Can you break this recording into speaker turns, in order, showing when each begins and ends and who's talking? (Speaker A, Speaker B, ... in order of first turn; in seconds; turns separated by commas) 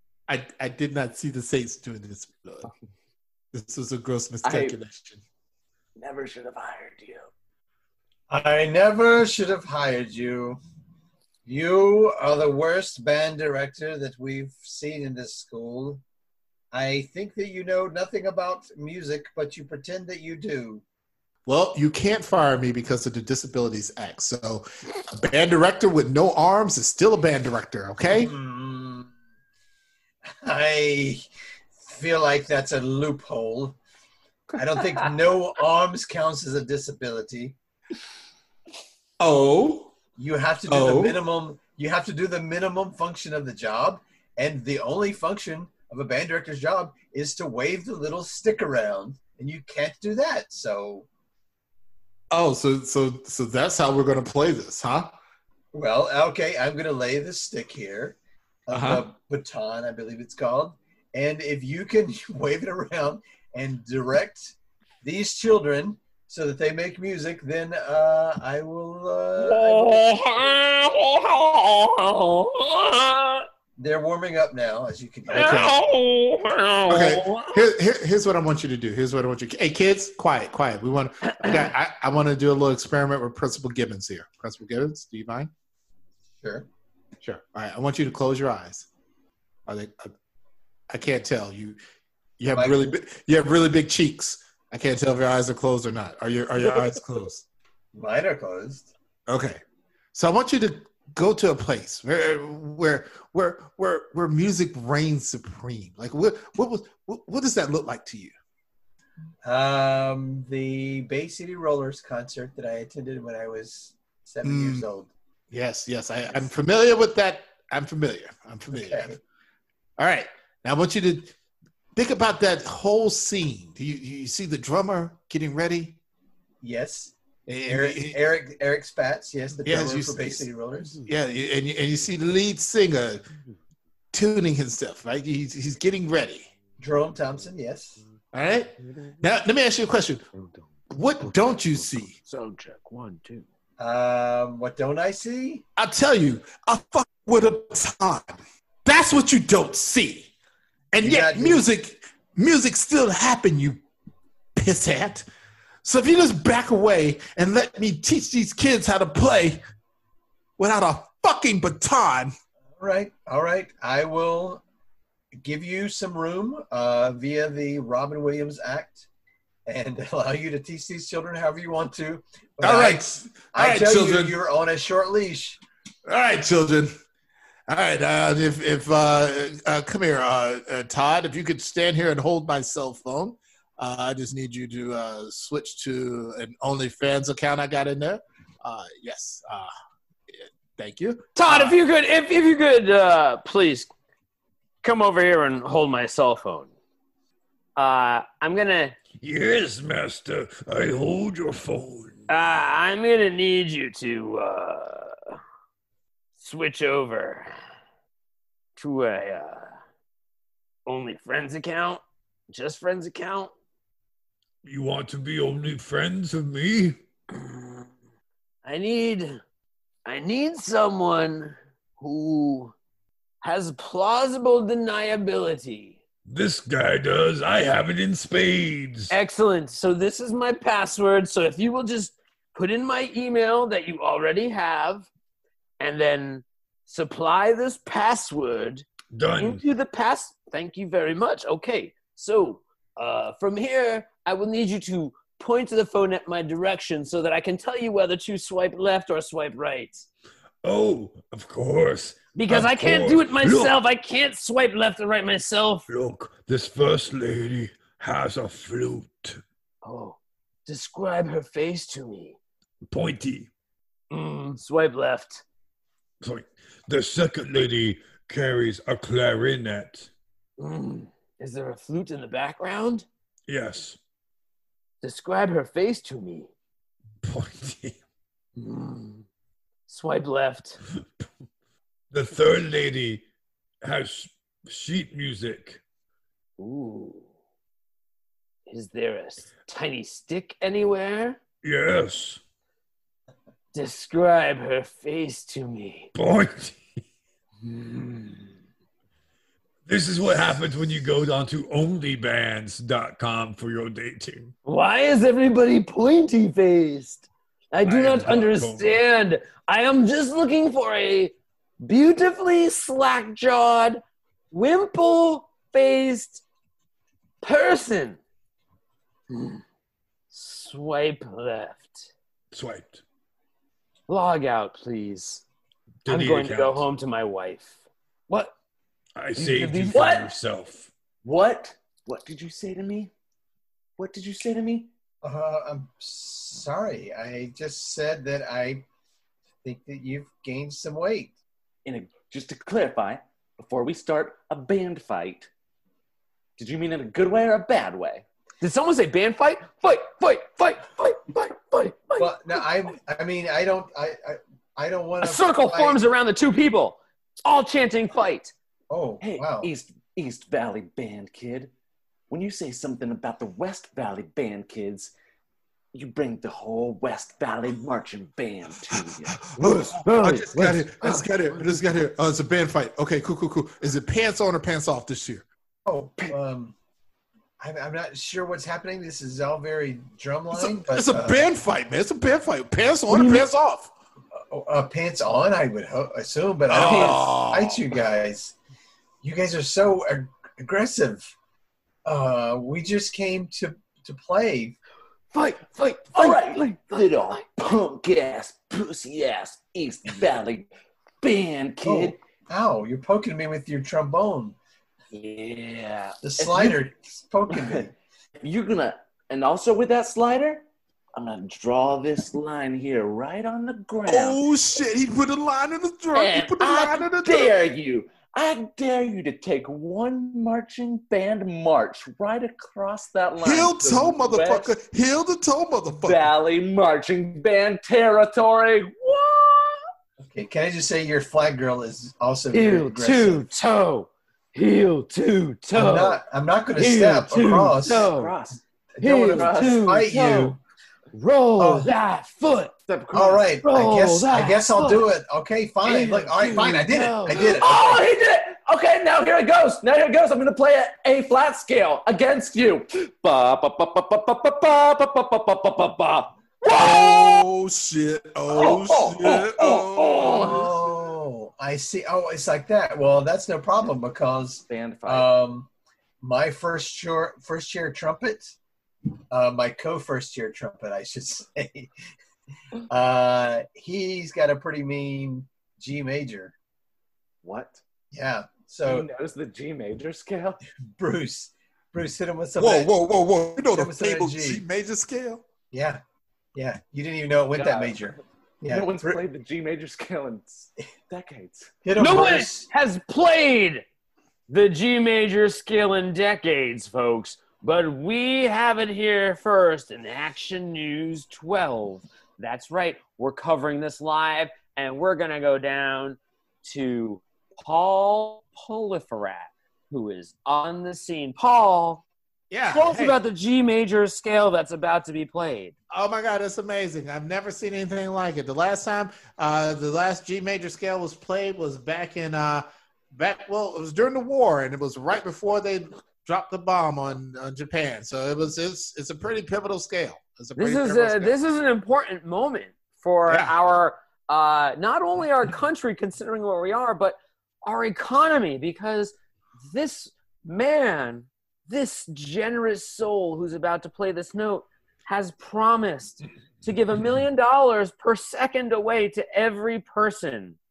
Speaker A: 0.3-2.7, Speaker A: 3.5-5.2, Speaker B: 4.4-4.8, Speaker B: 6.0-7.3, Speaker C: 8.3-10.6, Speaker C: 11.4-16.0, Speaker C: 16.7-20.8, Speaker A: 21.4-28.3, Speaker C: 28.1-29.1, Speaker C: 30.4-31.2, Speaker C: 31.8-33.8, Speaker C: 34.5-37.5, Speaker A: 39.2-39.9, Speaker C: 40.1-51.1, Speaker A: 40.7-41.2, Speaker A: 52.3-55.1, Speaker C: 55.7-70.0, Speaker A: 58.7-59.0, Speaker D: 69.4-73.4, Speaker C: 73.8-75.7, Speaker D: 75.3-77.7, Speaker A: 75.3-75.7, Speaker A: 76.9-85.5, Speaker C: 86.4-86.7, Speaker A: 87.2-88.9, Speaker A: 89.7-90.1, Speaker A: 90.9-91.8, Speaker A: 92.4-97.4, Speaker C: 92.5-92.9, Speaker C: 97.9-98.9, Speaker A: 99.3-99.6, Speaker A: 100.1-108.3, Speaker C: 109.4-115.1, Speaker A: 114.4-114.8, Speaker A: 115.5-119.2, Speaker C: 118.7-119.2, Speaker A: 120.0-121.3, Speaker A: 121.9-126.0, Speaker C: 126.6-127.1, Speaker A: 127.5-128.2, Speaker C: 127.7-131.0, Speaker A: 129.6-133.2, Speaker A: 134.1-136.5, Speaker C: 136.8-138.0, Speaker A: 138.3-140.3, Speaker D: 140.3-140.6, Speaker A: 140.9-142.2, Speaker D: 142.2-143.4, Speaker C: 143.8-145.6, Speaker A: 145.8-150.3, Speaker A: 150.9-153.8, Speaker C: 151.0-151.6, Speaker A: 154.5-155.2, Speaker A: 155.8-159.6, Speaker A: 160.6-162.3, Speaker C: 162.8-164.6, Speaker C: 165.4-169.0, Speaker C: 169.7-175.6, Speaker A: 172.6-174.4, Speaker A: 176.1-176.9, Speaker A: 177.7-189.7, Speaker A: 190.3-191.8, Speaker D: 191.3-193.9, Speaker D: 194.8-196.7, Speaker D: 197.8-198.9, Speaker E: 199.2-202.3, Speaker D: 202.3-205.3, Speaker D: 206.4-207.5, Speaker D: 208.8-209.8, Speaker D: 210.8-213.5, Speaker E: 214.6-217.0, Speaker D: 217.3-217.9, Speaker D: 218.6-219.4, Speaker D: 220.1-222.7, Speaker D: 223.4-226.0, Speaker E: 226.2-229.1, Speaker D: 229.1-235.1, Speaker D: 235.8-238.8, Speaker E: 239.1-239.6, Speaker D: 239.4-250.1, Speaker E: 250.6-253.8, Speaker D: 252.3-255.8, Speaker E: 255.9-259.4, Speaker D: 259.8-262.4, Speaker E: 262.9-263.5, Speaker D: 264.1-265.4, Speaker E: 266.2-270.1, Speaker D: 270.6-273.1, Speaker E: 273.5-274.0, Speaker D: 275.0-276.5, Speaker E: 277.2-278.0, Speaker D: 278.6-279.2, Speaker D: 279.9-280.8, Speaker E: 282.1-283.2, Speaker E: 283.8-285.8, Speaker D: 286.6-287.2, Speaker D: 288.7-291.4, Speaker E: 291.6-292.4, Speaker D: 293.7-296.1, Speaker E: 296.1-296.8, Speaker D: 297.6-298.5, Speaker E: 299.9-304.5, Speaker D: 304.6-316.4, Speaker E: 307.8-309.0, Speaker D: 317.4-318.2, Speaker D: 319.3-319.6, Speaker D: 320.3-322.1, Speaker E: 322.5-323.0, Speaker D: 324.1-325.4, Speaker E: 326.0-326.8, Speaker D: 326.1-328.5, Speaker E: 329.1-330.9, Speaker D: 329.3-330.2, Speaker B: 329.9-330.3, Speaker B: 331.2-333.1, Speaker B: 334.0-334.9, Speaker C: 335.2-338.8, Speaker C: 339.6-341.3, Speaker B: 341.9-345.5, Speaker B: 346.6-348.2, Speaker D: 348.6-352.6, Speaker C: 352.2-356.0, Speaker D: 355.2-358.5, Speaker C: 358.9-359.7, Speaker B: 359.2-361.7, Speaker B: 362.3-365.1, Speaker B: 365.9-369.5, Speaker A: 368.9-375.4, Speaker D: 369.6-371.7, Speaker C: 375.9-376.7, Speaker C: 377.6-381.4, Speaker A: 380.5-383.9, Speaker D: 383.1-383.4, Speaker C: 384.4-388.6, Speaker A: 386.7-387.9, Speaker C: 389.2-391.3, Speaker C: 392.1-394.8, Speaker D: 395.3-397.4, Speaker B: 396.1-400.7, Speaker B: 401.2-402.2, Speaker C: 401.8-404.6, Speaker D: 405.2-406.1, Speaker C: 406.2-407.9, Speaker B: 406.4-406.8, Speaker B: 408.4-414.4, Speaker A: 414.1-417.5, Speaker B: 416.1-424.7, Speaker A: 423.4-426.3, Speaker B: 425.9-429.8, Speaker C: 430.2-433.4, Speaker D: 432.5-436.2, Speaker C: 435.7-438.1, Speaker D: 436.8-438.3, Speaker B: 437.9-438.6, Speaker C: 439.0-440.6, Speaker D: 439.0-440.6, Speaker B: 439.3-440.0, Speaker D: 441.1-442.7, Speaker C: 441.6-441.9, Speaker B: 442.9-443.5, Speaker C: 443.1-448.1, Speaker D: 443.6-445.1, Speaker D: 445.8-447.6, Speaker B: 447.3-457.4, Speaker A: 456.7-460.8, Speaker B: 458.5-460.7, Speaker C: 460.3-465.7, Speaker B: 464.7-465.3, Speaker C: 466.2-468.5, Speaker C: 469.3-471.9, Speaker C: 472.9-476.5, Speaker B: 477.4-477.8, Speaker C: 478.1-479.1, Speaker B: 478.8-480.6, Speaker C: 480.9-482.9, Speaker A: 482.6-485.4, Speaker C: 483.6-484.6, Speaker C: 485.7-486.0, Speaker C: 486.5-489.2, Speaker B: 487.5-491.7, Speaker C: 491.8-492.7, Speaker D: 492.0-493.8, Speaker D: 494.5-512.0, Speaker A: 512.5-513.2, Speaker D: 512.7-515.7, Speaker A: 515.9-531.4, Speaker D: 530.6-550.6, Speaker A: 533.2-533.5